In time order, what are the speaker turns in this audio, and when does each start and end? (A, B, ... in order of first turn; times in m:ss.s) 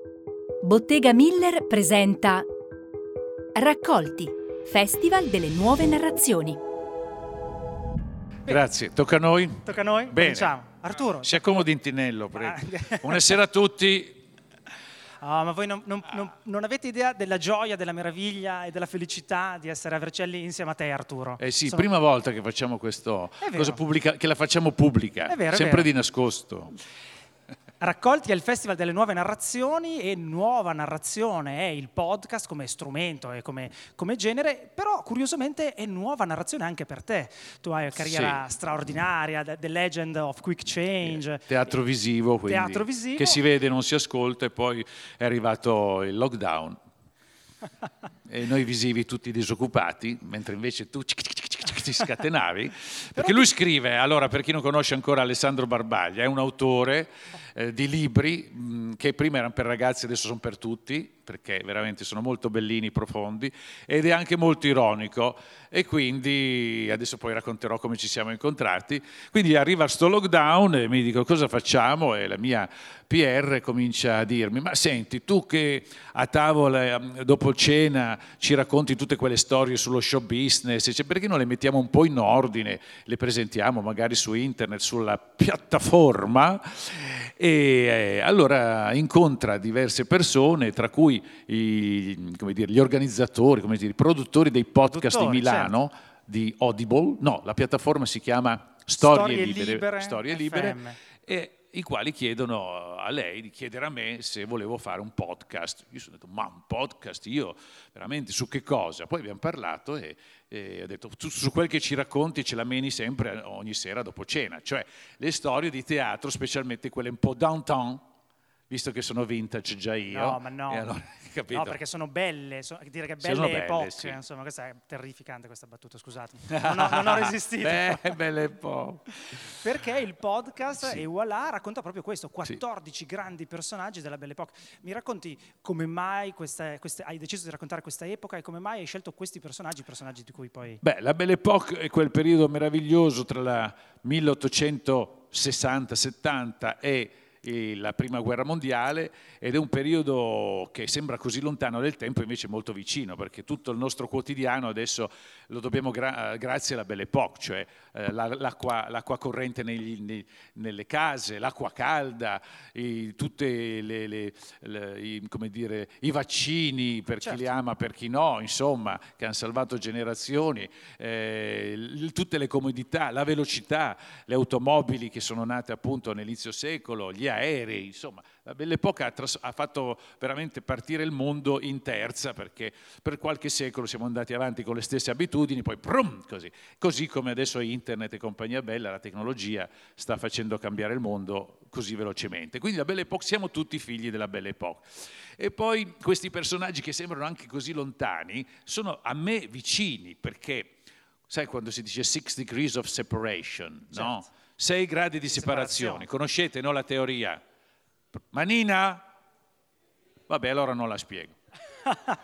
0:00.6-0:02.4 A
0:03.5-0:06.6 A
0:08.5-0:14.2 B
0:09.6-0:11.7 C
0:12.3-0:13.4 C
0:15.2-0:21.9 C
0:21.4-0:26.8 B
0:23.4-0:23.8 C
0:25.3-0:25.9 C
0:27.8-0:41.5 C
0:38.0-0:38.4 B
0:41.0-0:46.8 B
0:42.5-0:43.4 C
0:48.3-1:58.0 B
0:53.2-0:53.4 C
1:34.9-1:35.8 C
1:39.0-1:41.0 C
1:58.7-2:01.8 B
2:00.1-2:00.9 C
2:01.5-2:08.2 C
2:03.2-2:04.2 B
2:06.5-2:09.0 B
2:09.4-2:20.8 C
2:20.8-3:20.8 B
2:47.2-2:47.4 C
3:21.3-3:27.4 B
3:23.9-3:24.3 C
3:25.3-3:26.1 C
3:28.2-3:29.1 B
3:30.3-3:31.4 B